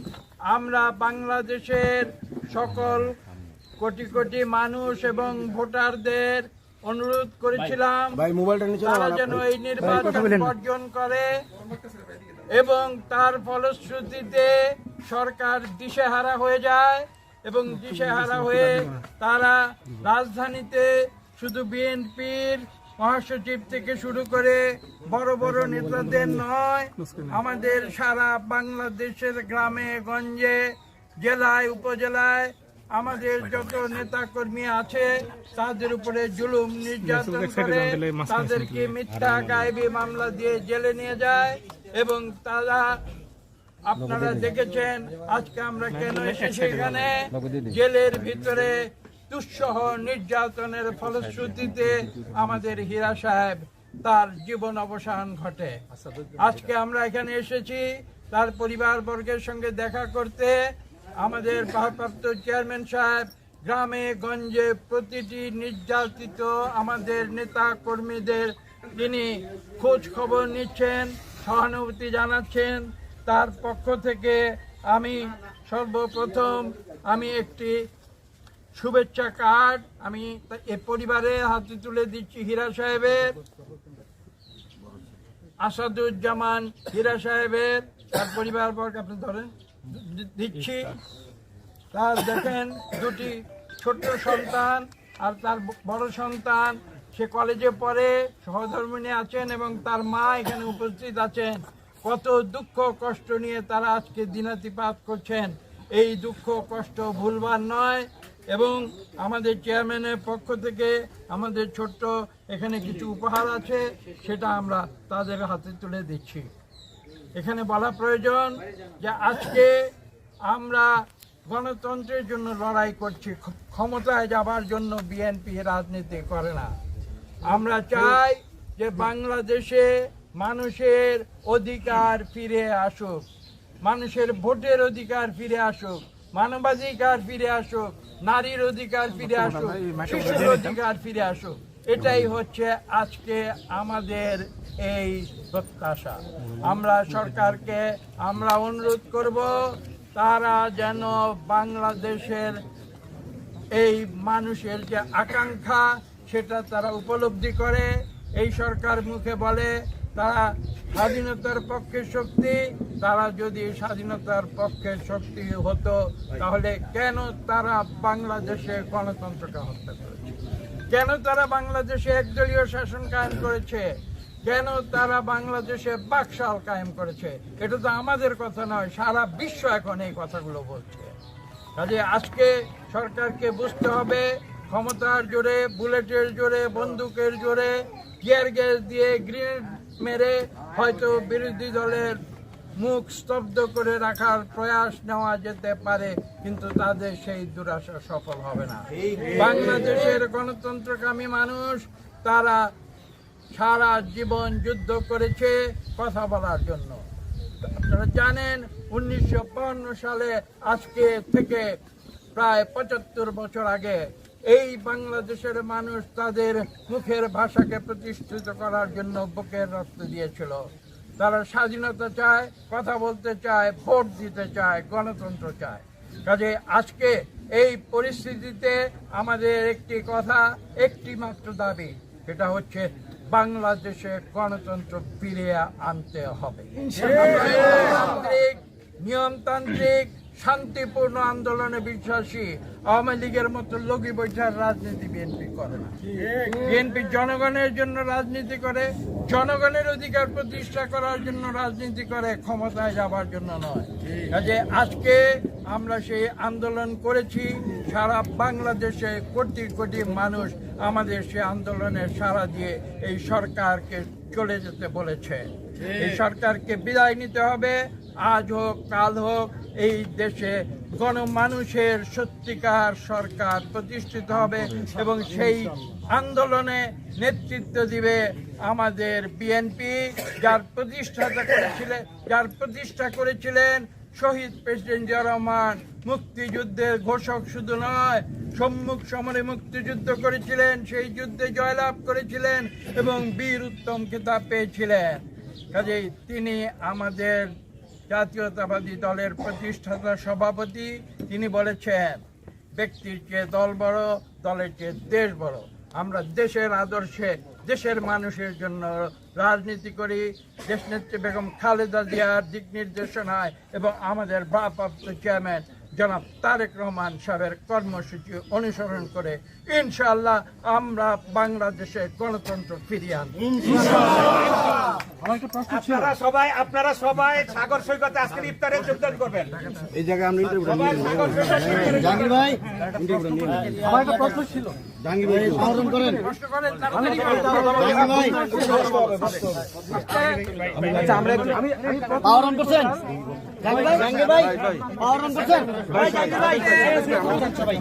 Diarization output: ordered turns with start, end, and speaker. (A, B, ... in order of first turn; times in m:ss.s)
0:00.5-0:03.2 A
0:03.8-0:08.2 A
0:08.3-0:08.6 B
0:08.8-0:11.4 A
0:12.5-0:43.0 A
0:43.8-0:55.8 A
0:56.3-1:00.6 A
1:01.2-1:17.8 A
1:18.7-1:23.4 A
1:25.6-1:31.0 A
1:31.9-1:56.5 A
1:57.4-1:59.9 A
2:00.4-2:06.7 A
2:07.4-2:13.2 A
2:13.8-2:32.6 A
2:33.7-2:50.2 A
2:50.9-2:53.9 A
2:54.4-3:01.1 A
3:01.8-3:12.2 A
3:12.8-3:22.6 A
3:23.5-3:27.0 A
3:27.6-3:31.8 A
3:32.3-4:05.9 A
4:06.4-4:57.5 A
4:58.1-5:02.2 A
5:02.8-5:23.5 A
5:23.8-5:24.3 C
5:25.2-5:25.8 D
5:25.7-5:29.8 C
5:30.5-5:32.5 C
5:32.1-5:33.8 B
5:33.7-5:34.8 D
5:35.1-5:35.9 B
5:35.6-5:38.8 A
5:37.7-5:38.6 B
5:39.9-5:40.4 A
5:40.8-5:41.6 B
5:41.0-5:43.0 D
5:42.2-5:42.8 B
5:43.6-5:47.5 B
5:43.7-5:44.1 D
5:45.9-5:47.4 D